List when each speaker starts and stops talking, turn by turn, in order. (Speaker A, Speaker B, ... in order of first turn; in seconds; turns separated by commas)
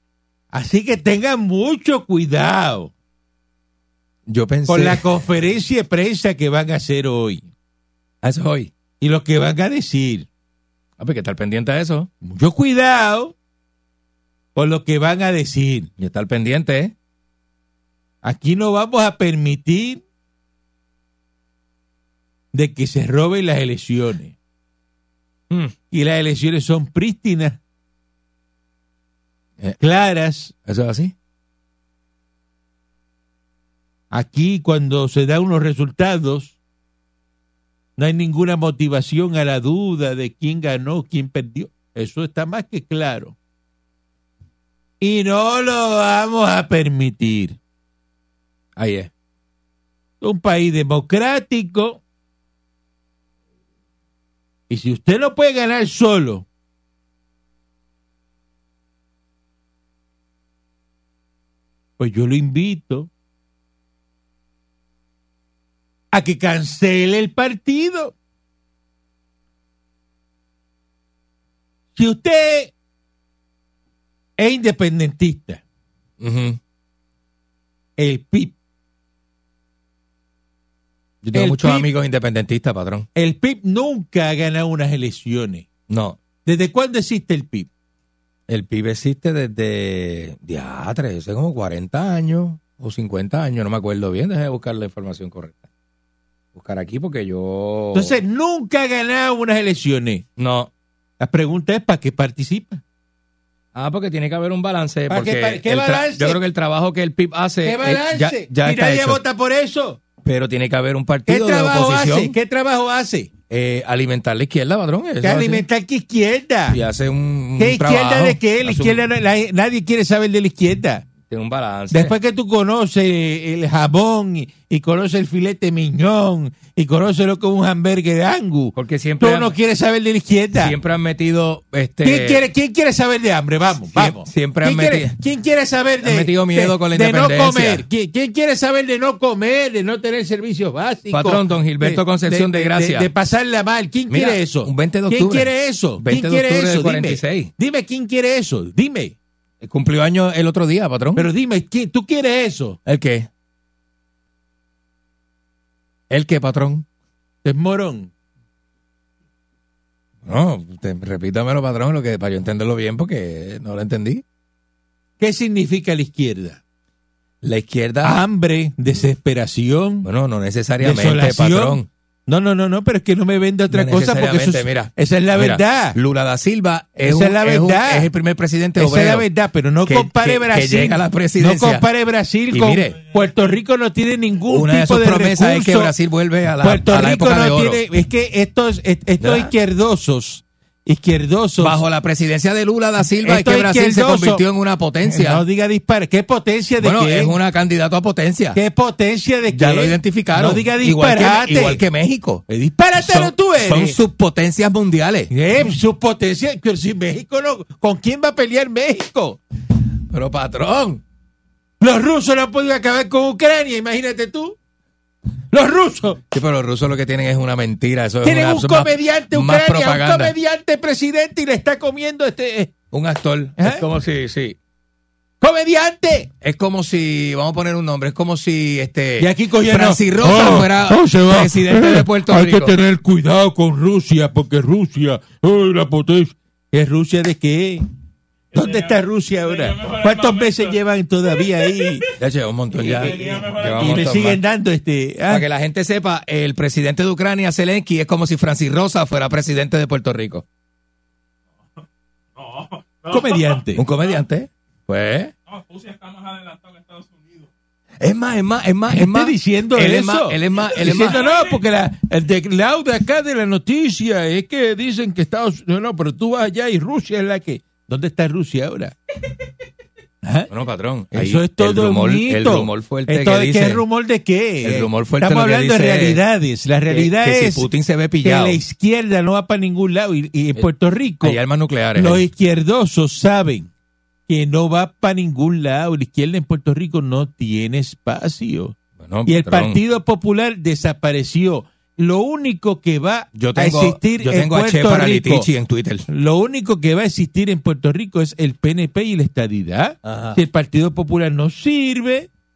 Speaker A: 0.5-2.9, Speaker B: 4.3-5.2, Speaker A: 4.7-7.5, Speaker B: 8.2-8.7, Speaker A: 9.0-10.3, Speaker B: 11.0-12.1, Speaker A: 12.2-13.3, Speaker A: 14.6-15.9, Speaker B: 16.0-16.9, Speaker A: 18.2-20.0, Speaker A: 22.5-24.4, Speaker A: 25.9-27.6, Speaker A: 29.8-30.5, Speaker B: 30.7-31.1, Speaker A: 34.1-36.6, Speaker A: 38.0-43.4, Speaker A: 45.0-47.6, Speaker B: 48.8-49.1, Speaker A: 50.2-52.0, Speaker A: 54.7-56.5, Speaker A: 62.0-63.1, Speaker A: 66.1-68.1, Speaker A: 72.0-72.7, Speaker A: 74.4-75.6, Speaker B: 76.2-76.6, Speaker A: 78.0-78.6, Speaker B: 81.2-83.1, Speaker A: 81.3-81.9, Speaker A: 83.2-85.7, Speaker B: 85.9-86.2, Speaker A: 86.5-87.7, Speaker B: 88.5-95.7, Speaker B: 96.5-98.2, Speaker A: 97.9-100.2, Speaker B: 100.4-100.7, Speaker A: 101.2-102.8, Speaker B: 103.7-109.2, Speaker A: 105.1-106.4, Speaker A: 107.6-110.0, Speaker B: 110.2-112.3, Speaker A: 111.3-113.3, Speaker B: 113.5-115.7, Speaker A: 115.2-116.8, Speaker B: 116.7-119.0, Speaker A: 117.6-121.1, Speaker B: 121.3-122.2, Speaker A: 121.9-130.8, Speaker B: 128.8-129.6, Speaker B: 130.6-132.4, Speaker A: 132.0-149.2, Speaker B: 133.9-135.2, Speaker B: 136.0-137.8, Speaker B: 141.1-143.1, Speaker B: 144.1-147.5, Speaker B: 149.6-151.3, Speaker A: 151.2-152.8, Speaker B: 152.8-153.3, Speaker B: 156.1-156.9, Speaker A: 157.4-158.1, Speaker B: 160.2-164.2, Speaker A: 165.2-166.6, Speaker B: 167.4-168.2, Speaker A: 168.0-170.1, Speaker B: 170.0-171.9, Speaker A: 170.8-176.0, Speaker B: 173.7-179.3, Speaker A: 177.0-178.1, Speaker A: 178.8-185.9, Speaker B: 179.8-181.9, Speaker B: 182.5-182.9, Speaker B: 184.5-187.8, Speaker A: 186.6-191.8, Speaker B: 189.2-189.5, Speaker B: 191.6-195.4, Speaker A: 193.2-194.4, Speaker A: 195.1-197.4, Speaker B: 196.8-198.6, Speaker A: 198.6-201.8, Speaker B: 199.5-202.4, Speaker A: 202.5-204.0, Speaker B: 203.0-205.3, Speaker A: 205.3-209.4, Speaker B: 210.1-211.0, Speaker A: 211.8-214.6, Speaker A: 215.5-216.2, Speaker B: 216.3-220.3, Speaker A: 218.2-222.7, Speaker B: 222.9-224.6, Speaker A: 223.6-223.8, Speaker A: 225.4-226.3, Speaker B: 226.4-232.8, Speaker A: 229.2-237.8, Speaker C: 238.5-240.8, Speaker A: 238.5-242.1, Speaker B: 242.2-244.4, Speaker C: 242.8-244.2, Speaker A: 242.9-245.5, Speaker B: 245.3-250.4, Speaker C: 252.4-253.6, Speaker A: 253.1-253.8, Speaker B: 253.8-255.3, Speaker C: 255.5-257.5, Speaker B: 258.0-261.2, Speaker A: 258.9-269.0, Speaker C: 260.9-261.5, Speaker A: 270.2-270.5, Speaker B: 270.5-273.9, Speaker A: 271.1-277.7, Speaker B: 274.6-276.2, Speaker B: 276.9-278.6, Speaker A: 278.2-281.4, Speaker B: 281.2-282.2, Speaker A: 281.9-283.7, Speaker A: 284.3-295.5, Speaker B: 289.0-289.8, Speaker B: 293.4-296.1, Speaker A: 296.1-302.3, Speaker B: 300.0-300.4